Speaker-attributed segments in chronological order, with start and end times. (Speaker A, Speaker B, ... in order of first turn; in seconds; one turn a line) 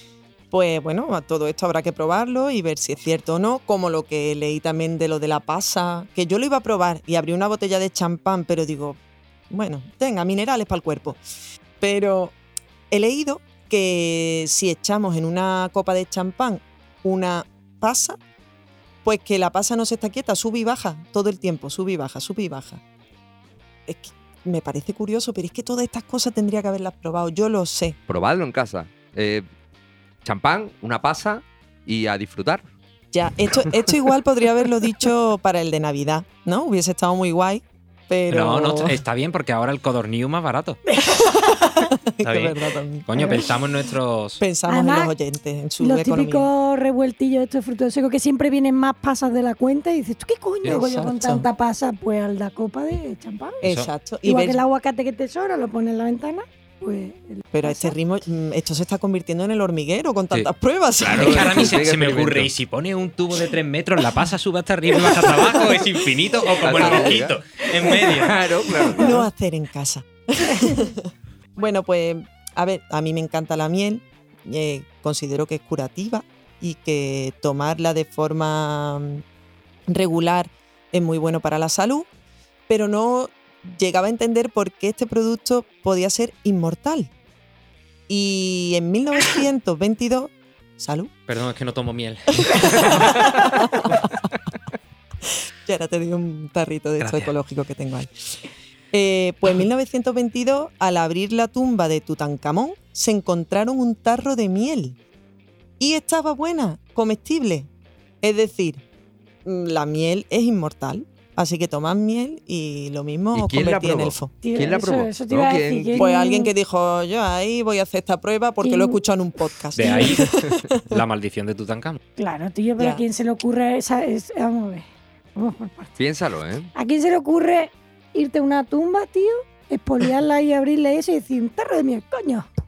Speaker A: 0.5-9.0
Speaker A: 9.5-11.2
Speaker A: 11.8-12.3
Speaker A: 12.9-18.2
Speaker A: 19.0-22.8
Speaker A: 23.9-28.0
Speaker B: 28.1-29.4
Speaker B: 30.2-32.6
Speaker A: 33.1-39.0
Speaker B: 33.6-33.9
Speaker C: 38.3-40.8
Speaker D: 40.9-41.9
Speaker A: 41.1-43.4
Speaker C: 42.2-42.5
Speaker C: 43.1-44.4
Speaker D: 43.1-43.4
Speaker A: 44.4-46.5
Speaker D: 44.7-45.1
Speaker D: 45.8-53.6
Speaker A: 50.6-51.5
Speaker A: 53.6-54.6
Speaker C: 53.6-53.9
Speaker D: 54.2-57.9
Speaker A: 57.5-61.8
Speaker C: 60.3-68.5
Speaker B: 61.0-62.5
Speaker B: 66.6-69.2
Speaker A: 68.9-79.2
Speaker D: 70.4-70.8
Speaker A: 79.9-82.1
Speaker A: 82.7-87.1
Speaker A: 88.1-91.1
Speaker C: 91.3-94.1
Speaker A: 92.4-94.0
Speaker A: 95.6-105.0
Speaker C: 97.0-97.3
Speaker A: 105.8-107.7
Speaker A: 108.2-108.8
Speaker A: 109.4-114.3
Speaker B: 113.3-116.1
Speaker D: 114.4-116.5
Speaker A: 116.0-121.0
Speaker D: 118.6-119.0
Speaker C: 119.8-122.0
Speaker D: 119.8-120.2
Speaker D: 122.2-126.0
Speaker A: 122.8-123.0
Speaker B: 126.0-126.7
Speaker D: 126.8-132.5